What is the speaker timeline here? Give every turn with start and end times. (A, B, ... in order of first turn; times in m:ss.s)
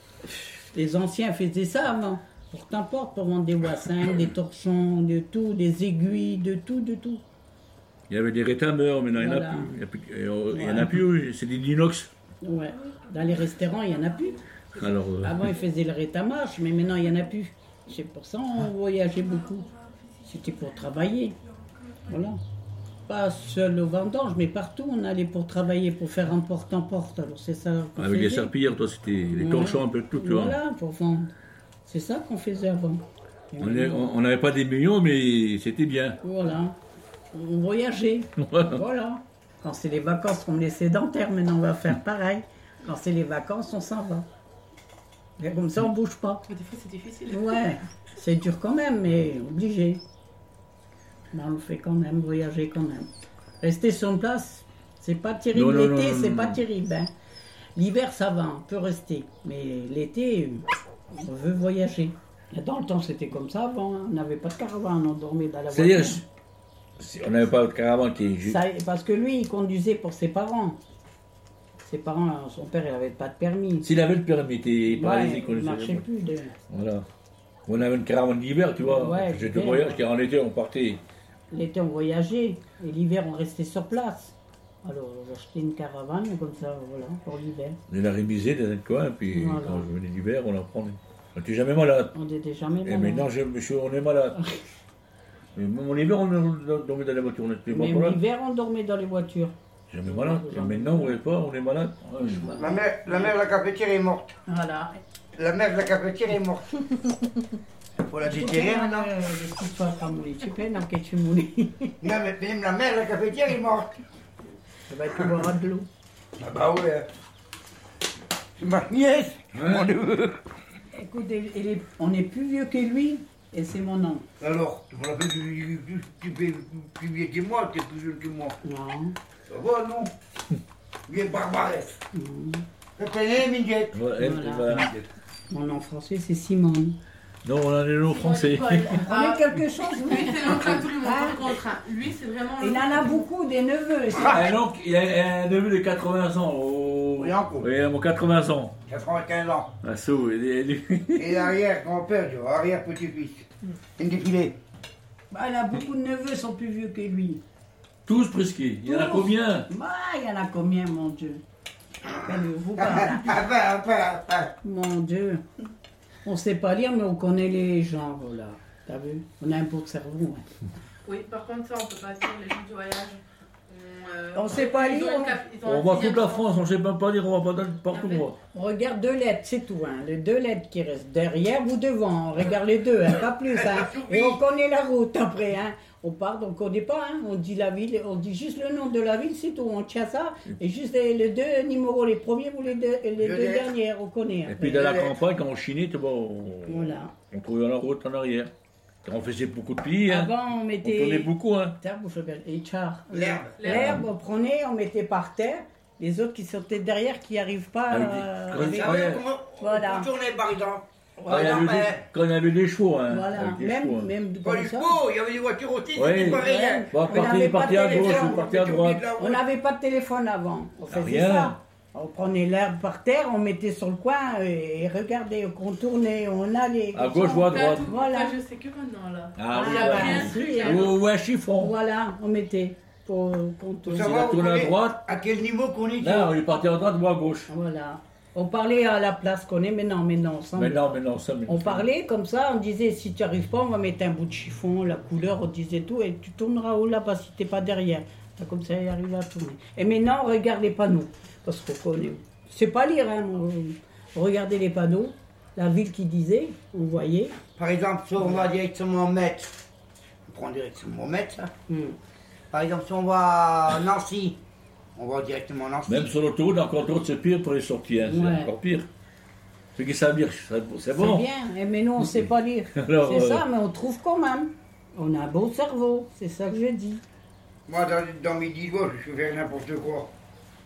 0:00.5-0:07.2 A
0:08.1-0:12.1 B
0:09.2-0:09.8 A
0:10.5-0:11.0 A
0:12.4-0:14.4 A
0:14.7-0:15.4 B
0:15.2-0:19.7 A
0:20.2-0:21.4 A
0:22.0-0:22.4 A
0:23.1-0:28.5 A
0:28.0-0:30.6 B
0:29.4-0:31.3 A
0:31.8-0:33.0 A
0:33.5-0:34.1 A
0:33.6-0:36.2 B
0:36.2-0:36.8 A
0:37.3-0:44.2 A
0:38.4-0:38.8 B
0:45.4-0:46.4 A
0:46.5-0:47.6 C
0:47.3-0:50.0 A
0:51.3-0:53.1 A
0:53.6-0:57.1 A
0:55.5-0:56.6 B
0:57.8-1:00.6 A
1:01.1-1:06.2 A
1:05.7-1:06.2 B
1:07.0-1:08.6 B
1:08.4-1:10.8 A
1:11.8-1:13.9 A
1:13.8-1:16.0 B
1:14.9-1:16.6 A
1:16.7-1:17.0 B
1:17.7-1:21.0 B
1:18.8-1:20.0 A
1:21.5-1:27.8 A
1:27.9-1:32.1 B
1:29.3-1:29.9 A
1:32.1-1:33.3 A
1:32.8-1:34.4 B
1:35.5-1:38.2 B
1:37.7-1:41.2 A
1:39.9-1:42.6 B
1:42.3-1:43.3 A
1:42.6-1:44.3 D
1:44.5-1:45.0 A
1:45.4-1:46.7 D
1:48.0-1:49.1 D
1:48.2-1:52.1 A
1:52.0-1:54.0 D
1:54.9-1:55.9 A
1:56.4-1:57.1 D
1:58.6-2:00.4 D
1:59.6-1:59.9 B
2:00.9-2:04.2 A
2:04.4-2:08.6 D
2:08.6-2:09.2 A
2:09.5-2:10.1 D
2:11.1-2:12.0 D
2:12.1-2:12.6 A
2:13.0-2:14.0 D
2:13.9-2:14.9 B
2:14.2-2:14.9 A
2:15.5-2:17.0 A
2:17.4-2:19.0 B
2:18.0-2:23.2 C
2:18.8-2:21.6 A
2:22.6-2:24.5 A
2:24.3-2:28.7 B
2:27.2-2:27.7 D
2:28.8-2:29.7 D
2:29.8-2:31.5 B
2:31.2-2:33.4 D
2:34.0-2:34.6 D
2:35.3-2:37.4 A
2:38.0-2:39.7 B
2:38.8-2:41.4 A
2:42.2-2:43.4 A
2:42.8-2:44.5 D
2:44.6-2:45.4 A
2:46.2-2:50.5 A
2:51.0-2:56.5 C
2:54.3-2:55.4 A
2:55.6-2:58.4 B
2:57.9-2:58.3 C
2:58.5-3:14.9 A
3:03.5-3:04.4 D
3:13.2-3:13.8 D
3:14.5-3:18.5 B
3:14.8-3:15.2 D
3:16.7-3:17.1 A
3:19.0-3:21.8 B
3:20.1-3:30.1 A
3:23.1-3:23.7 D
3:23.6-3:24.0 C
3:23.7-3:24.0 B
3:27.9-3:29.2 B
3:28.7-3:32.0 D
3:31.2-3:31.6 A
3:31.3-3:34.1 B
3:33.1-3:35.0 A
3:34.4-3:39.4 D
3:36.0-3:39.0 B
3:36.1-3:38.6 A
3:39.2-3:48.4 A
3:40.9-3:41.6 B
3:46.9-3:47.9 B
3:47.5-3:51.0 C
3:49.4-3:51.7 B
3:49.5-3:50.9 A
3:51.6-3:54.3 A
3:53.9-3:56.4 D
3:54.0-3:55.0 B
3:56.0-3:57.5 B
3:57.5-4:17.4 A
4:00.6-4:01.8 B
4:17.6-4:19.6 D
4:20.3-4:21.5 D
4:21.7-4:22.0 A
4:22.5-4:24.4 D
4:24.9-4:26.1 D
4:25.9-4:28.9 B
4:28.0-4:28.5 A
4:29.8-4:31.2 B
4:30.9-4:37.0 A
4:32.7-4:33.4 B
4:37.7-4:40.1 D